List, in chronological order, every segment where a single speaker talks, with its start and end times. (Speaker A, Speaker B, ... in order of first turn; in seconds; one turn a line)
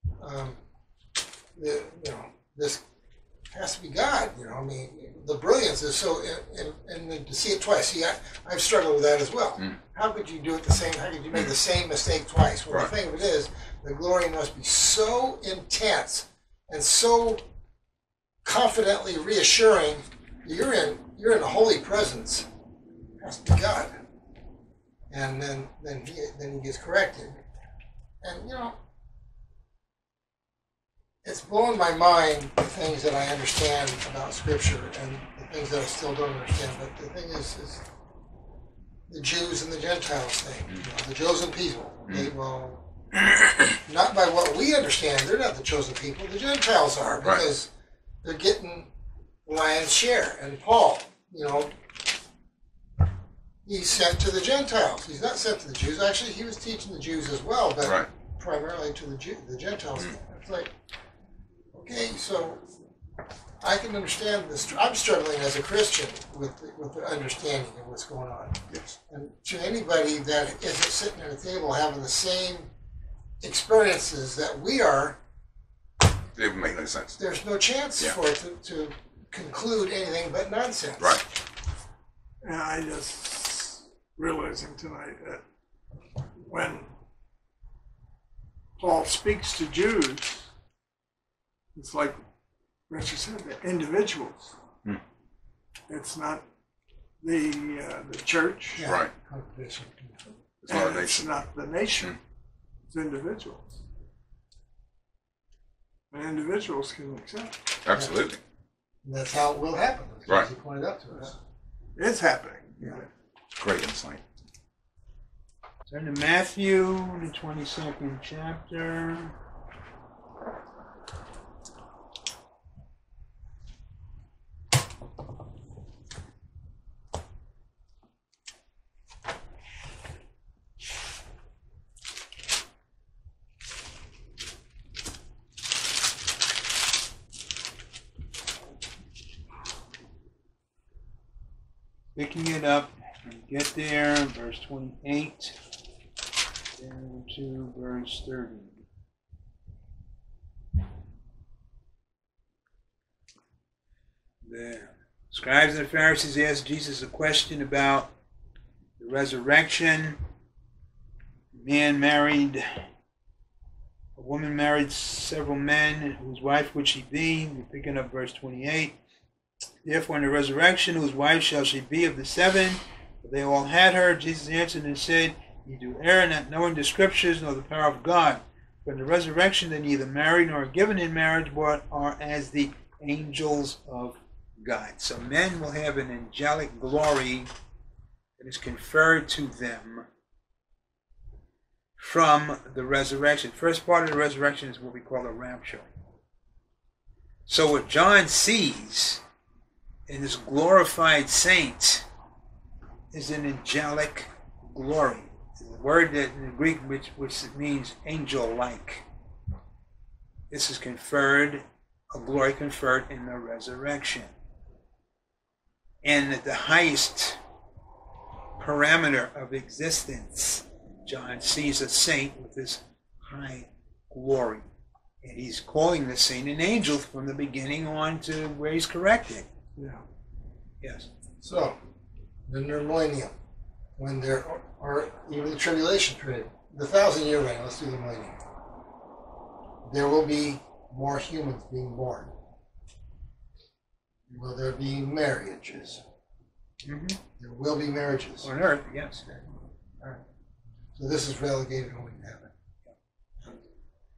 Speaker A: 0.2-0.6
Speaker A: 1.6-2.8
Speaker A: 3.5-17.4
Speaker A: 18.4-22.5
Speaker A: 23.2-23.9
Speaker A: 25.1-27.4
Speaker A: 28.2-28.8
Speaker A: 31.2-37.8
Speaker A: 39.1-42.8
Speaker A: 43.8-47.7
Speaker A: 48.2-48.9
Speaker A: 49.5-51.7
Speaker A: 53.7-60.7
Speaker B: 57.8-58.1
Speaker A: 61.7-62.8
Speaker A: 63.6-72.7
Speaker A: 73.4-75.2
Speaker B: 76.4-77.2
Speaker A: 77.2-81.2
Speaker C: 82.4-85.4
Speaker C: 86.4-86.9
Speaker C: 88.8-90.5
Speaker C: 91.8-92.2
Speaker C: 92.9-94.5
Speaker C: 95.9-96.4
Speaker C: 97.2-98.9
Speaker A: 98.7-100.2
Speaker B: 98.9-99.1
Speaker B: 100.6-101.3
Speaker C: 100.7-102.2
Speaker C: 102.9-103.8
Speaker C: 106.1-107.7
Speaker B: 107.8-108.4
Speaker A: 109.0-111.4
Speaker C: 112.0-113.1
Speaker B: 113.6-114.2
Speaker D: 115.9-119.3
Speaker D: 142.2-145.6
Speaker D: 146.8-148.8
Speaker D: 154.4-158.1
Speaker D: 159.0-160.2
Speaker D: 161.5-162.8
Speaker D: 164.2-168.9
Speaker D: 169.8-187.5
Speaker D: 188.4-190.1
Speaker D: 192.0-195.9
Speaker D: 197.5-199.2
Speaker D: 200.1-202.1
Speaker D: 203.1-209.1
Speaker D: 210.5-214.3
Speaker D: 216.0-217.4
Speaker D: 218.6-224.7
Speaker D: 225.2-229.5
Speaker D: 230.8-231.1
Speaker A: 231.4-231.8
Speaker A: 232.5-233.3
Speaker A: 234.0-238.4
Speaker A: 239.8-242.3
Speaker A: 244.3-246.0
Speaker D: 246.8-247.2
Speaker A: 247.4-248.5
Speaker D: 248.4-249.2
Speaker A: 251.0-252.5